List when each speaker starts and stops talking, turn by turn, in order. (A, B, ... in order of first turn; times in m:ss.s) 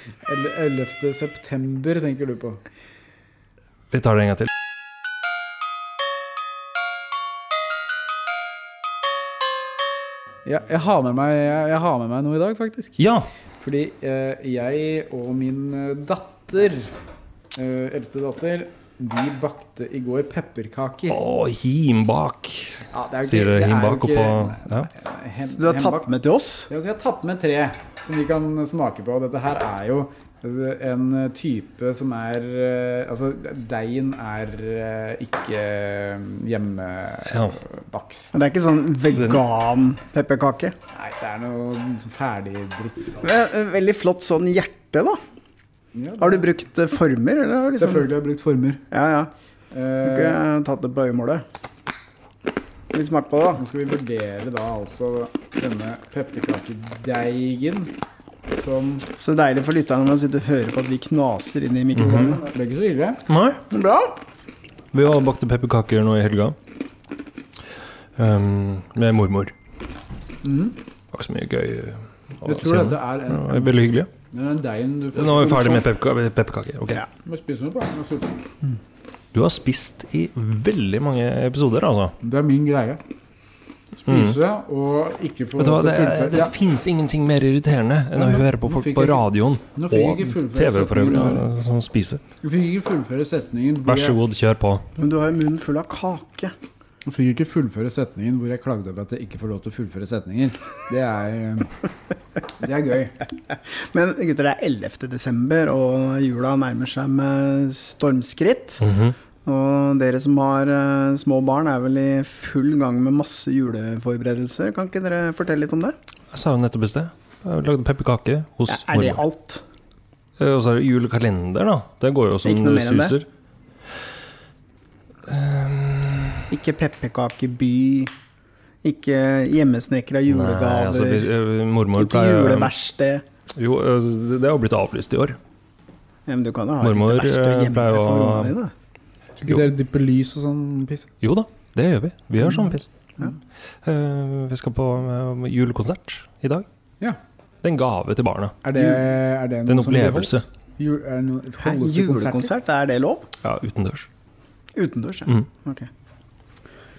0:00.2-0:02.6 A
0:03.9-0:04.5 B
0:10.4-0:13.0 A
0:13.0-0:13.3 B
0:13.6-0:16.9 A
0:17.5-0:21.2 A
0:21.1-0:24.9 B
0:22.9-0:26.1 A
0:25.4-0:26.7 C
0:26.7-0:38.4 A
0:37.3-0:37.6 B
0:38.3-0:40.8 C
0:39.2-0:39.4 B
0:40.9-0:43.3 A
0:43.2-0:45.2 C
0:46.0-0:46.4 A
0:46.2-0:48.1 C
0:47.8-0:48.8 A
0:48.9-0:49.3 C
0:49.7-0:50.4 A
0:50.0-0:51.4 C
0:52.9-0:53.6 C
0:53.6-0:58.0 A
0:58.5-0:59.1 A
0:59.2-1:02.4 C
1:02.0-1:02.4 B
1:02.0-1:03.2 A
1:03.3-1:03.6 B
1:03.7-1:04.2 C
1:04.9-1:06.6 B
1:08.2-1:09.5 B
1:10.4-1:10.8 A
1:11.1-1:14.1 B
1:12.4-1:13.8 A
1:14.3-1:15.9 A
1:15.2-1:17.1 B
1:17.2-1:18.4 A
1:19.3-1:22.2 B
1:22.2-1:23.0 A
1:24.0-1:26.6 A
1:24.1-1:24.4 B
1:25.6-1:32.2 B
1:28.1-1:31.5 A
1:32.4-1:34.2 A
1:33.8-1:34.9 B
1:35.0-1:36.6 C
1:37.0-1:41.8 A
1:42.6-1:43.2 A
1:43.5-1:48.8 C
1:48.8-1:49.2 B
1:49.4-1:56.0 C
1:56.3-1:59.2 B
1:58.7-1:59.6 C
2:00.4-2:03.3 B
2:02.4-2:03.2 C
2:05.3-2:06.5 B
2:06.5-2:08.1 C
2:08.8-2:11.3 C
2:10.3-2:12.7 B
2:12.0-2:13.2 C
2:13.6-2:15.4 B
2:16.3-2:18.7 C
2:16.8-2:18.6 B
2:19.4-2:21.1 A
2:21.2-2:22.9 B
2:22.4-2:22.7 A
2:23.8-2:26.6 B
2:27.6-2:28.6 B
2:28.6-2:32.5 A
2:28.8-2:29.0 C
2:29.7-2:30.4 B
2:31.6-2:33.3 C
2:33.4-2:34.1 B
2:34.8-2:35.9 C